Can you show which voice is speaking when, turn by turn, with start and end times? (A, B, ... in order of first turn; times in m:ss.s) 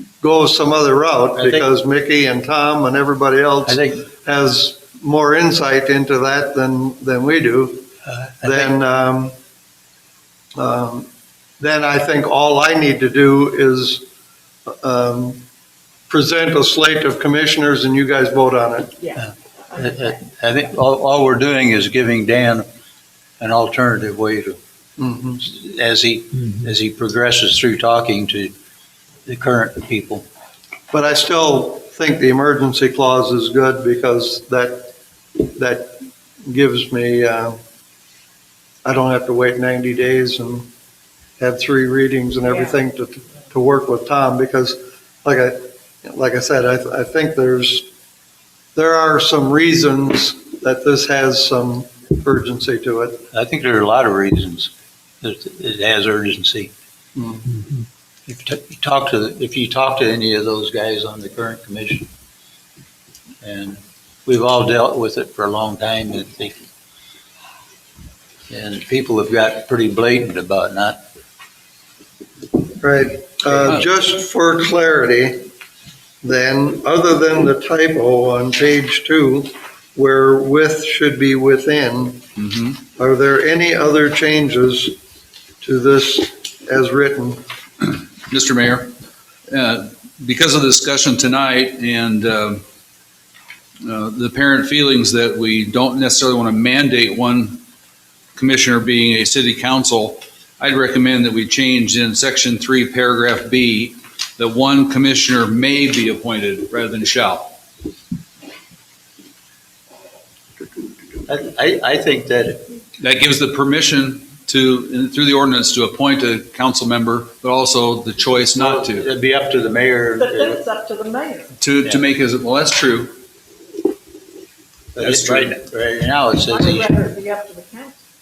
0:00.2-0:07.9 A
0:01.4-0:01.7 B
0:03.7-0:04.0 B
0:08.1-0:08.7 B
0:08.4-0:09.4 A
0:10.6-0:11.1 A
0:11.6-0:14.0 A
0:14.7-0:15.4 A
0:16.1-0:19.0 A
0:19.0-0:20.0 C
0:19.2-0:22.7 B
0:23.4-0:24.6 B
0:25.0-0:25.4 A
0:25.4-0:28.5 B
0:29.3-0:30.2 B
0:30.9-0:37.6 A
0:38.8-0:40.7 A
0:41.4-0:47.9 A
0:42.5-0:42.8 C
0:48.8-0:53.2 A
0:53.3-0:54.7 B
0:55.2-0:56.7 B
0:57.2-0:57.5 A
0:58.3-1:02.1 B
1:03.4-1:06.6 B
1:08.5-1:11.0 B
1:12.8-1:15.4 A
1:16.2-1:22.3 A
1:22.4-1:22.8 D
1:23.0-1:25.0 A
1:25.6-1:27.4 A
1:27.8-1:28.9 D
1:29.5-1:32.6 D
1:33.8-1:37.6 D
1:38.4-1:47.5 D
1:51.3-1:52.7 B
1:53.0-1:59.1 D
1:58.6-2:00.6 B
2:00.2-2:01.5 C
2:01.6-2:03.1 D
2:05.0-2:07.0 B
2:05.0-2:05.6 D
2:06.5-2:08.0 C